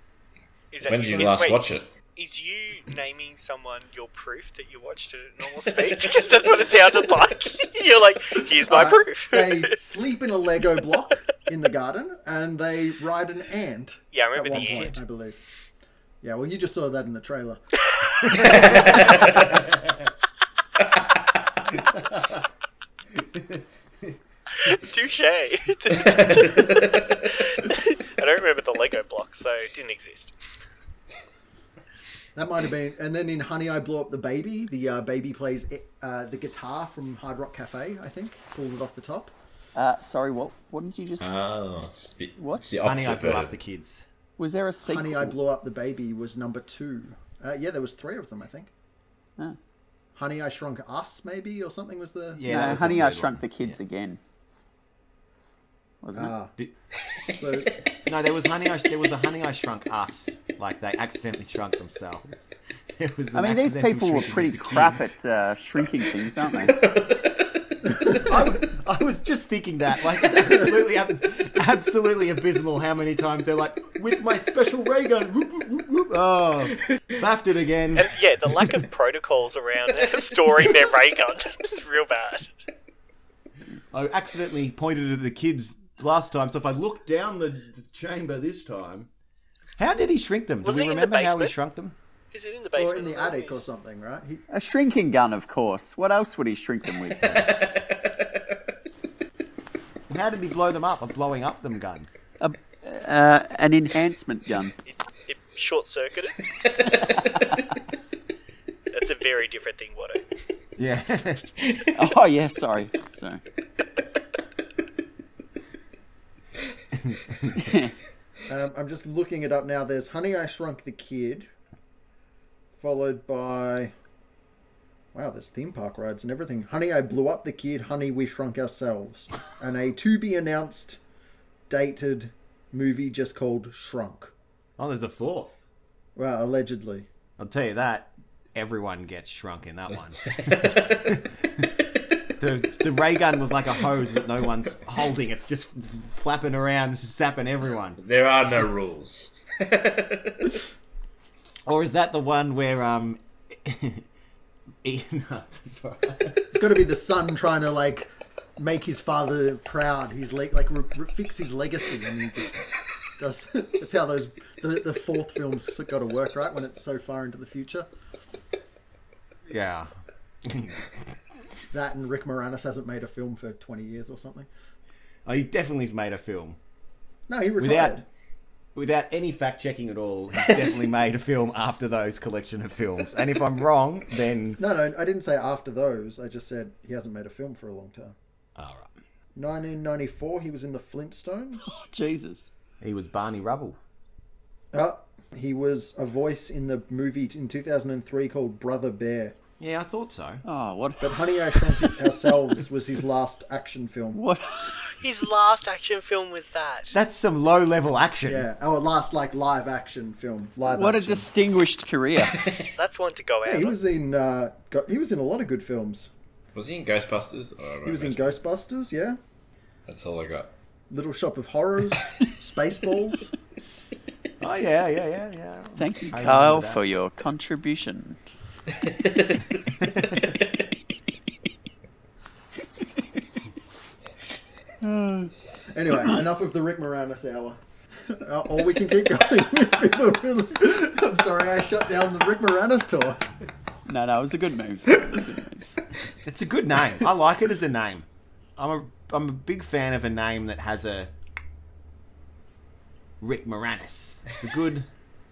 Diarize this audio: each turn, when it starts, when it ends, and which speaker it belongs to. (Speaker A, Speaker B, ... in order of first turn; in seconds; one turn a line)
Speaker A: 0.7-1.6
Speaker B: 0.8-1.9
Speaker A: 2.1-9.8
Speaker C: 8.7-15.4
Speaker A: 14.1-14.9
Speaker D: 14.5-14.9
Speaker C: 16.2-17.6
Speaker C: 18.6-19.0
Speaker B: 18.8-19.2
Speaker A: 24.6-30.3
Speaker C: 32.3-39.3
Speaker E: 39.7-41.4
Speaker B: 41.2-43.5
Speaker E: 42.4-42.6
Speaker D: 42.8-44.0
Speaker E: 44.4-45.4
Speaker C: 44.9-48.7
Speaker C: 50.1-53.0
Speaker D: 52.3-53.8
Speaker E: 52.5-54.2
Speaker E: 56.0-56.3
Speaker C: 56.1-56.5
Speaker C: 57.3-57.8
Speaker D: 58.0-65.1
Speaker E: 63.3-66.8
Speaker B: 66.8-67.3
Speaker D: 68.0-78.7
Speaker A: 77.9-82.5
Speaker D: 83.9-89.1
Speaker D: 89.8-92.0
Speaker A: 90.6-91.5
Speaker A: 92.3-93.7
Speaker C: 92.8-94.4
Speaker E: 94.5-97.2
Speaker D: 97.2-97.5
Speaker B: 97.5-97.8
Speaker D: 100.1-102.1
Speaker E: 102.4-104.8
Speaker A: 104.9-106.4
Speaker A: 108.9-110.2
Speaker D: 110.8-111.9
Speaker E: 111.9-113.4
Speaker D: 117.0-117.4
Speaker E: 117.5-117.9
Speaker C: 118.5-121.5
Speaker C: 122.8-123.9
Speaker C: 125.1-131.0
Speaker C: 131.7-134.3
Speaker D: 134.8-135.6
Speaker C: 136.2-137.1
Speaker D: 137.4-141.7
Speaker D: 142.4-148.0
Speaker B: 148.0-150.6
Speaker D: 151.7-154.1
Speaker D: 154.8-156.5
Speaker C: 156.5-162.6
Speaker C: 163.2-167.9
Speaker D: 169.5-169.9
Speaker D: 170.4-170.9
Speaker C: 171.7-174.5
Speaker D: 175.2-176.6
Speaker C: 177.3-178.0
Speaker D: 177.6-178.0
Speaker D: 178.7-184.6
Speaker C: 184.6-188.1
Speaker D: 188.6-188.9
Speaker C: 189.3-191.8
Speaker E: 191.7-192.5
Speaker D: 192.8-193.8
Speaker C: 194.7-199.4
Speaker D: 199.6-200.4
Speaker E: 200.4-201.9
Speaker C: 201.0-204.2
Speaker E: 204.1-204.8
Speaker A: 204.8-206.9
Speaker D: 206.9-208.5
Speaker C: 208.2-211.3
Speaker E: 210.7-212.5
Speaker B: 212.3-212.7
Speaker A: 212.7-213.8
Speaker C: 213.4-216.1
Speaker B: 216.5-218.3
Speaker C: 217.8-219.2
Speaker B: 219.9-220.5
Speaker C: 220.9-223.3
Speaker D: 224.4-226.8
Speaker E: 225.8-228.2
Speaker B: 228.9-229.4
Speaker D: 229.8-230.1
Speaker E: 234.8-235.3
Speaker C: 235.7-243.2
Speaker E: 243.8-245.7
Speaker D: 246.2-248.1
Speaker D: 248.6-251.1
Speaker D: 253.2-254.9